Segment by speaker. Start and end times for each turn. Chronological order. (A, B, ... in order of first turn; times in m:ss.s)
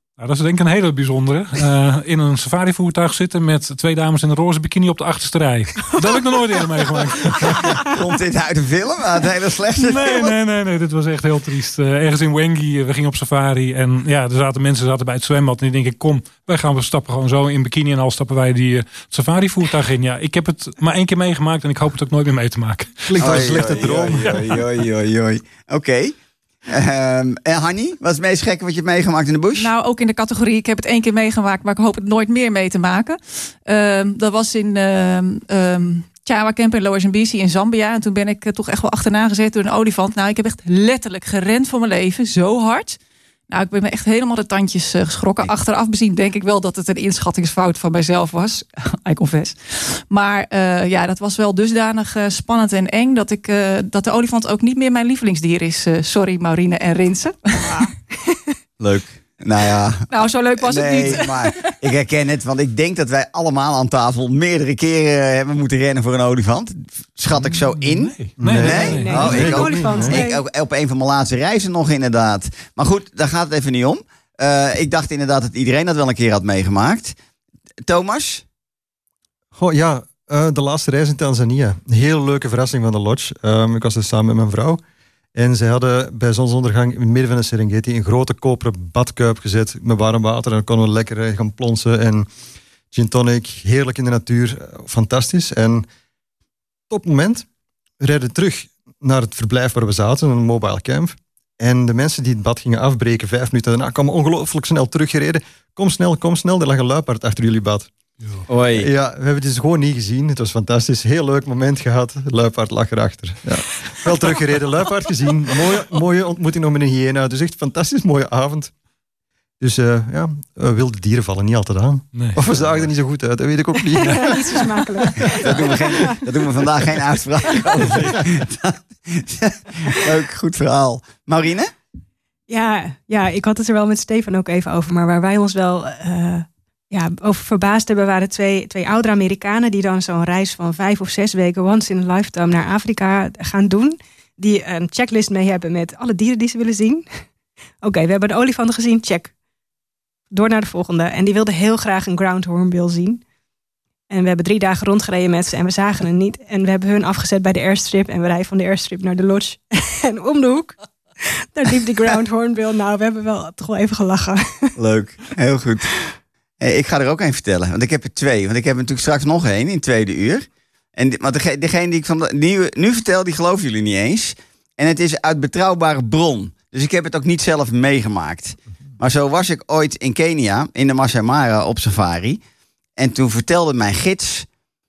0:00.2-0:07.9 A
0:07.8-0:10.3 B
0:09.8-0:23.6 A
0:23.1-0:24.6 C
0:23.2-0:26.2 B
0:26.7-0:29.7 B
0:29.6-0:43.0 D
0:43.5-0:57.9 D
0:58.8-1:00.0 B
1:00.1-1:01.8 D
1:00.6-1:17.2 B
1:07.3-1:09.6 A
1:08.4-1:10.2 C
1:08.7-1:10.4 E
1:17.9-1:18.4 B
1:19.5-1:24.8 C
1:25.3-1:32.3 C
1:32.9-1:35.8 C
1:36.9-1:37.5 C
1:38.0-1:47.9 C
1:48.2-1:48.4 A
1:48.5-1:48.9 B
1:48.7-1:58.7 C
1:59.6-2:04.6 C
2:02.1-2:02.7 A
2:04.0-2:06.1 E
2:05.3-2:05.6 C
2:05.3-2:11.7 B
2:12.5-2:27.0 E
2:27.8-2:29.3 E
2:30.3-2:33.2 E
2:34.1-2:40.8 E
2:41.4-2:44.7 E
2:44.8-2:45.9 B
2:46.6-2:50.4 B
2:51.0-3:02.4 B
3:03.0-3:04.5 B